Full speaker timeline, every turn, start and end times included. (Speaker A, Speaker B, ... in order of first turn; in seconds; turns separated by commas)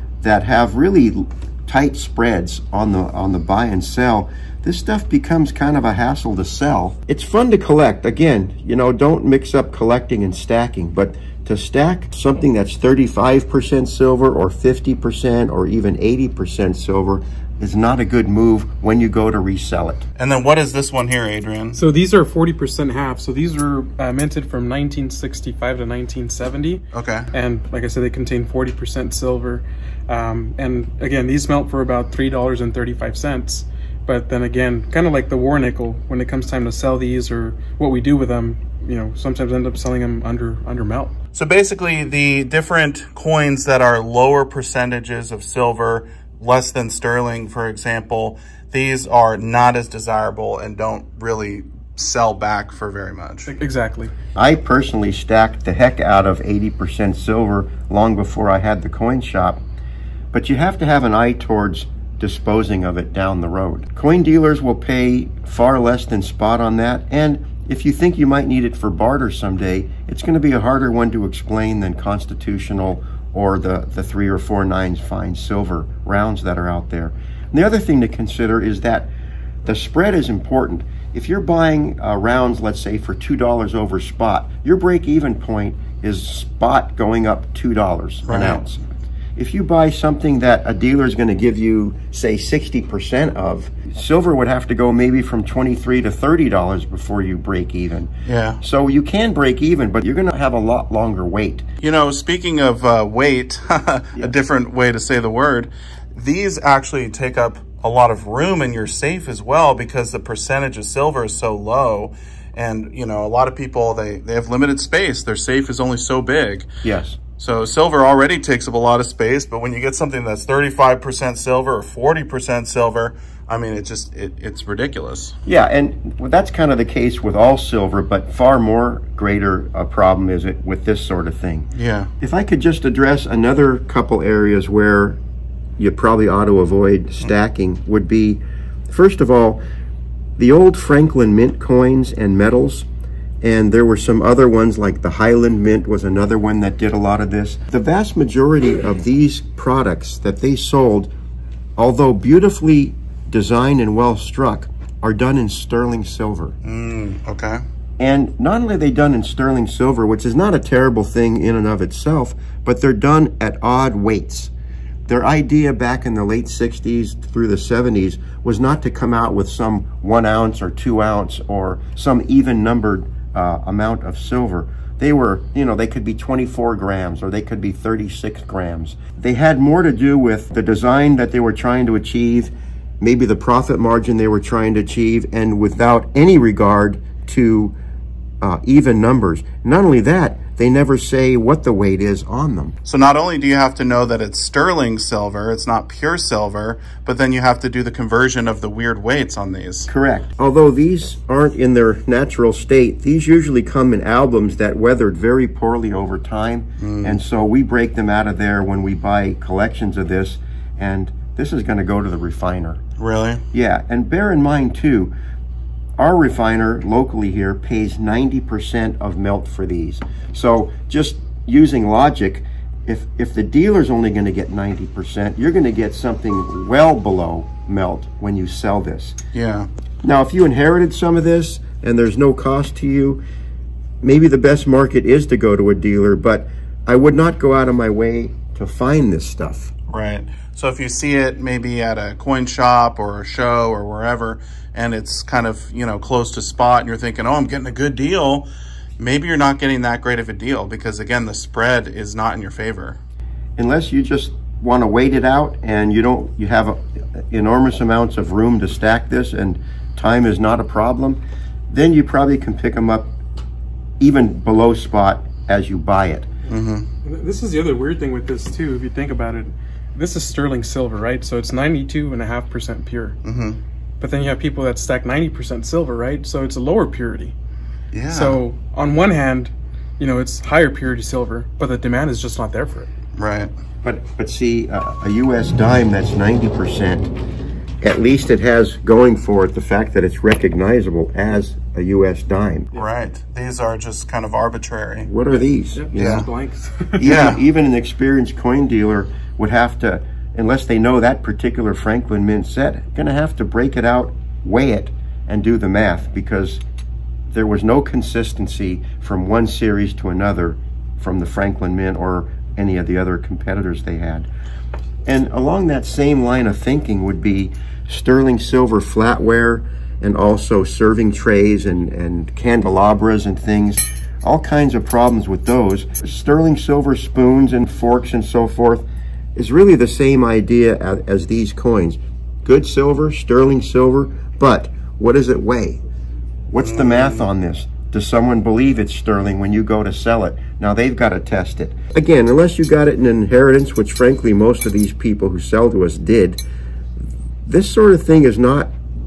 Speaker A: 0.2-20.0, Speaker B: 20.2-21.8, Speaker C: 21.7-41.1, Speaker B: 26.9-27.3, Speaker B: 41.3-53.5, Speaker C: 53.5-54.1, Speaker A: 54.4-59.6, Speaker A: 60.3-79.1, Speaker A: 79.7-88.8, Speaker B: 88.2-88.7, Speaker A: 89.4-98.1, Speaker B: 98.3-98.6, Speaker A: 98.6-101.7, Speaker B: 101.8-116.7, Speaker A: 116.8-117.2, Speaker B: 117.4-125.4, Speaker A: 125.5-131.7, Speaker B: 131.7-132.1, Speaker A: 132.2-135.2, Speaker A: 135.8-139.6, Speaker A: 140.4-142.9, Speaker A: 143.4-151.1, Speaker A: 151.8-156.6, Speaker B: 156.6-157.6, Speaker A: 158.0-164.5, Speaker A: 165.1-187.8, Speaker A: 188.4-192.7, Speaker B: 192.8-199.9, Speaker A: 199.9-212.8, Speaker B: 206.8-207.2, Speaker B: 213.0-213.4, Speaker A: 213.5-215.1, Speaker A: 216.0-229.2, Speaker B: 229.3-229.7, Speaker A: 230.0-233.2, Speaker A: 234.0-239.7, Speaker B: 239.9-248.5, Speaker B: 249.0-253.0, Speaker A: 253.6-263.1, Speaker A: 264.0-266.3, Speaker B: 266.5-266.9, Speaker C: 267.0-273.2, Speaker B: 273.2-273.6, Speaker C: 274.0-277.3, Speaker B: 277.9-278.4, Speaker C: 278.1-282.9, Speaker B: 283.2-283.5, Speaker A: 283.8-287.1, Speaker A: 287.8-292.7, Speaker B: 292.7-295.1, Speaker A: 295.1-296.3, Speaker C: 295.8-297.2, Speaker B: 295.9-296.3, Speaker A: 297.0-306.6, Speaker B: 297.0-297.4, Speaker A: 307.3-314.3, Speaker A: 315.1-335.8, Speaker A: 336.5-346.4, Speaker B: 336.6-337.3, Speaker A: 347.5-348.7